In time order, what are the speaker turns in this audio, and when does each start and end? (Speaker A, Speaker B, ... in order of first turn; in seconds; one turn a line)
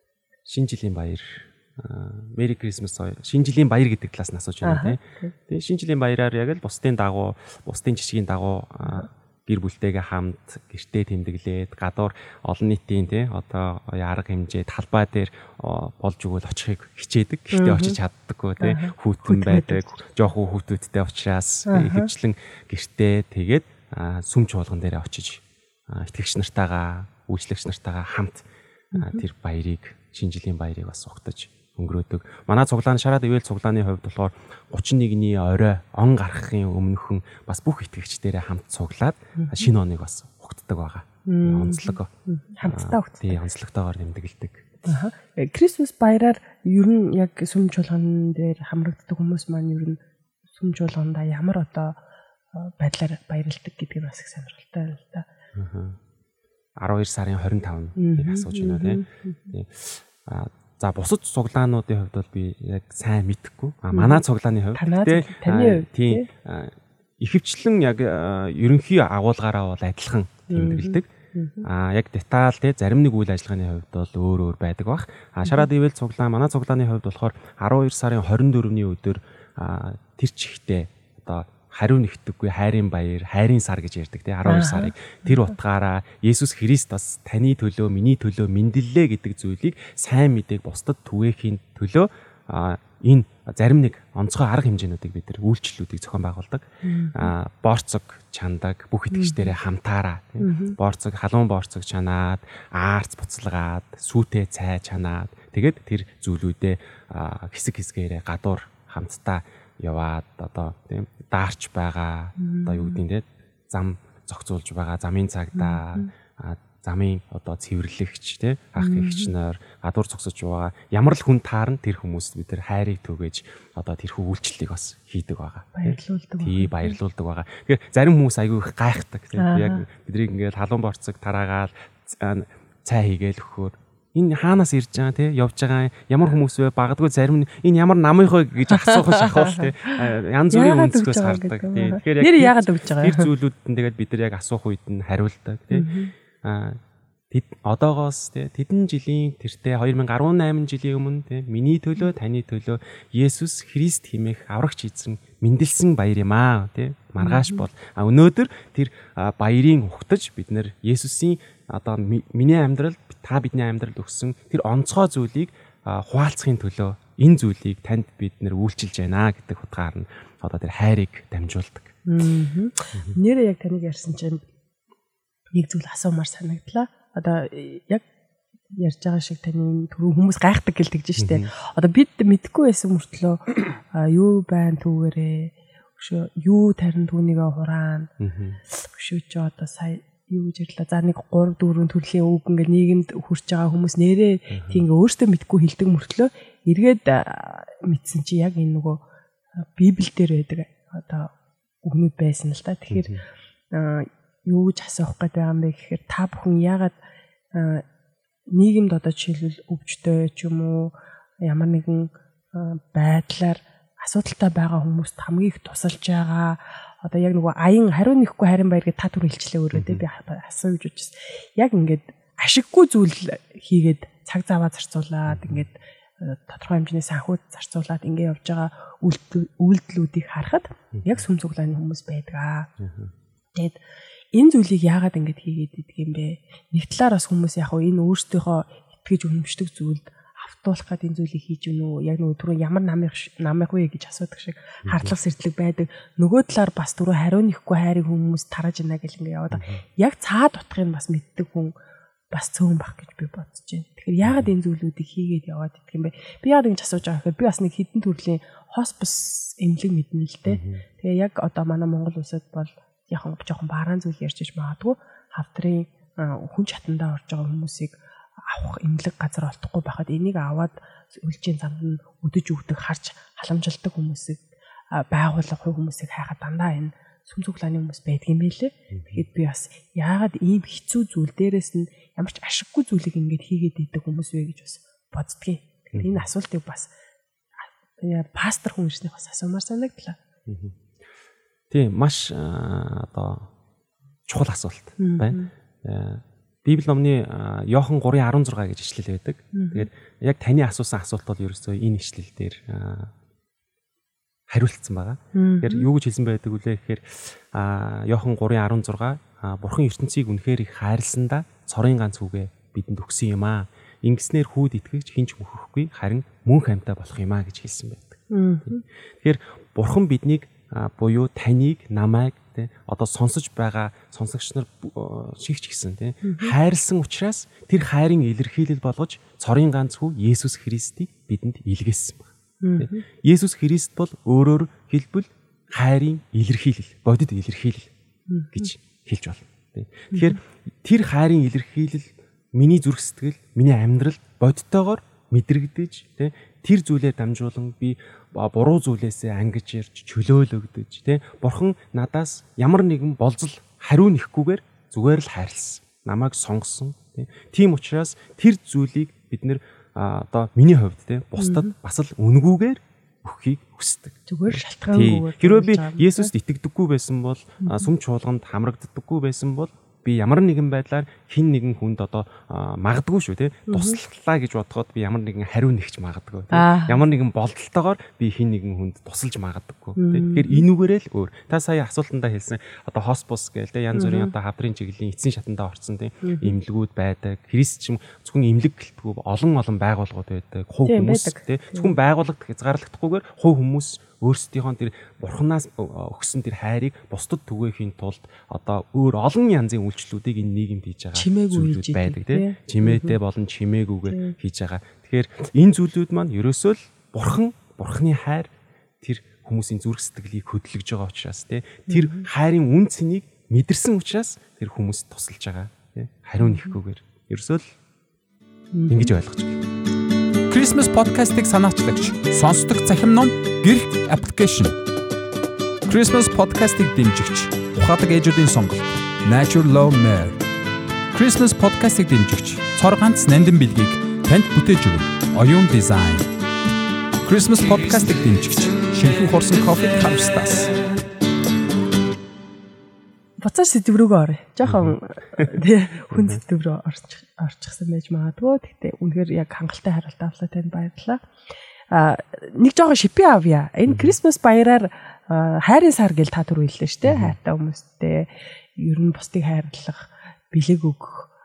Speaker A: 0.5-42.1
Speaker B: 4.6-5.3
Speaker B: 17.5-18.0
Speaker B: 18.6-20.0
Speaker B: 21.7-22.1
Speaker B: 28.9-29.2
Speaker B: 39.4-39.7
Speaker B: 41.3-43.4
Speaker A: 42.6-44.7
Speaker B: 44.9-50.0
Speaker B: 50.5-52.0
Speaker B: 52.5-55.3
Speaker A: 55.5-56.0
Speaker A: 56.8-71.1
Speaker B: 58.0-59.5
Speaker B: 63.9-64.2
Speaker B: 64.8-66.3
Speaker B: 70.5-71.7
Speaker A: 71.6-145.9
Speaker B: 84.5-85.2
Speaker B: 96.8-97.3
Speaker B: 99.1-99.5
Speaker B: 100.4-100.8
Speaker B: 112.4-113.0
Speaker B: 115.5-116.1
Speaker B: 118.8-119.3
Speaker B: 125.8-127.0
Speaker B: 129.4-129.9
Speaker B: 138.7-140.0
Speaker B: 140.5-143.3
Speaker B: 145.7-146.1
Speaker A: 146.4-146.8
Speaker A: 147.3-171.9
Speaker B: 157.2-157.7
Speaker B: 172.1-174.4
Speaker B: 175.5-178.1
Speaker B: 178.8-188.1
Speaker A: 181.2-181.5
Speaker A: 188.2-188.6
Speaker B: 188.7-199.0
Speaker A: 194.5-194.8
Speaker B: 199.6-201.3
Speaker B: 201.8-203.1
Speaker A: 202.9-203.2
Speaker B: 203.7-207.0
Speaker B: 207.5-207.8
Speaker B: 208.5-232.7
Speaker A: 219.7-220.0
Speaker A: 225.3-225.7
Speaker A: 230.9-231.2
Speaker A: 232.8-233.1
Speaker B: 234.3-251.8
Speaker A: 244.8-245.1
Speaker A: 249.5-249.8
Speaker B: 252.3-274.4
Speaker A: 254.2-254.5
Speaker A: 260.5-260.8
Speaker B: 274.9-286.9
Speaker A: 278.9-279.2
Speaker A: 285.9-286.2
Speaker B: 287.6-290.2
Speaker A: 290.5-290.8
Speaker A: 291.7-293.5
Speaker A: 294.3-303.1
Speaker B: 295.0-295.5
Speaker B: 299.5-299.9
Speaker A: 304.5-318.2
Speaker B: 305.4-305.9
Speaker B: 318.3-318.8
Speaker A: 319.2-332.3
Speaker B: 326.2-326.5
Speaker B: 332.6-333.1
Speaker A: 332.8-337.9
Speaker B: 338.3-338.7
Speaker A: 338.5-417.8
Speaker B: 340.1-340.4
Speaker B: 361.4-361.7
Speaker B: 364.3-366.3
Speaker B: 367.6-367.9
Speaker B: 373.7-374.0
Speaker B: 376.5-377.0
Speaker B: 380.0-380.7
Speaker B: 383.9-384.3
Speaker B: 386.2-386.6
Speaker B: 390.9-391.9
Speaker B: 401.1-403.2
Speaker B: 404.1-404.3
Speaker B: 411.9-412.3
Speaker B: 416.4-416.7
Speaker B: 418.7-419.1
Speaker A: 418.9-419.6
Speaker C: 420.5-424.8
Speaker C: 425.9-430.4
Speaker C: 431.1-436.3
Speaker C: 437.2-440.7
Speaker B: 443.4-451.2
Speaker A: 444.6-445.5
Speaker A: 446.1-446.4
Speaker B: 451.9-461.3
Speaker A: 453.9-454.2
Speaker A: 457.0-457.4